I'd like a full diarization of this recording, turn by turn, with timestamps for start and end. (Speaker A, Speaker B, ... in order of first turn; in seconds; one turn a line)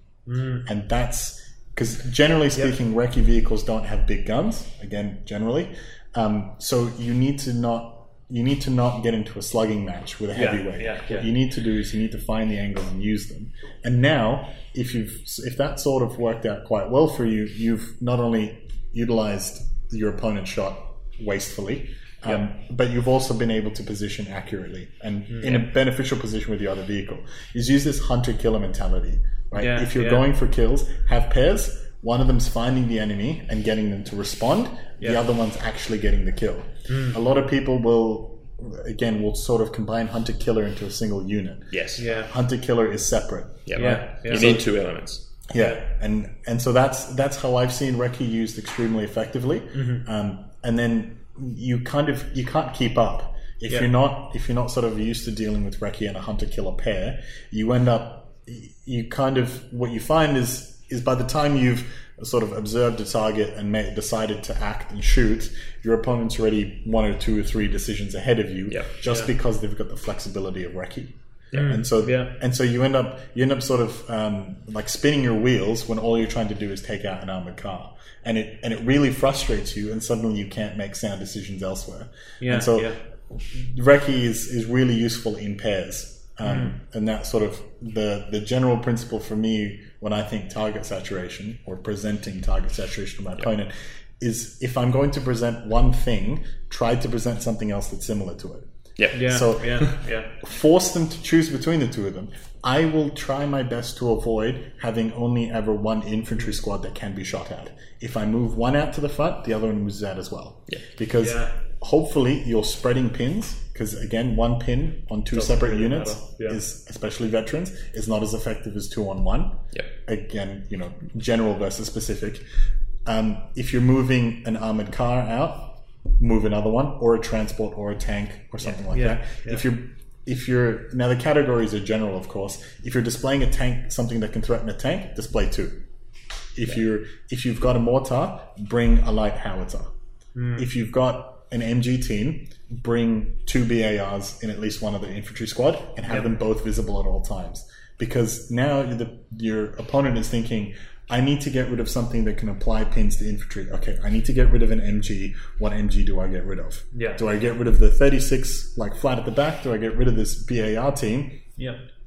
Speaker A: 0.3-0.7
Speaker B: 0.7-44.6
Speaker A: 10.3-11.3
Speaker A: 25.3-25.7
Speaker A: 29.5-30.3
Speaker A: 36.9-37.2
Speaker C: 41.7-42.0
Speaker A: 42.0-42.3
Speaker C: 43.7-45.3
Speaker A: 43.8-44.6
Speaker B: 45.5-98.7
Speaker A: 45.6-45.8
Speaker A: 49.7-50.1
Speaker A: 69.1-69.3
Speaker C: 71.5-71.8
Speaker A: 71.5-72.3
Speaker A: 82.4-83.0
Speaker A: 86.4-86.8
Speaker C: 99.0-99.3
Speaker A: 99.1-100.3
Speaker B: 99.2-122.5
Speaker A: 111.1-111.5
Speaker A: 115.3-116.6
Speaker B: 123.0-135.8
Speaker A: 128.9-129.6
Speaker B: 136.6-139.9
Speaker A: 140.3-140.7
Speaker B: 140.6-161.4
Speaker A: 156.9-157.2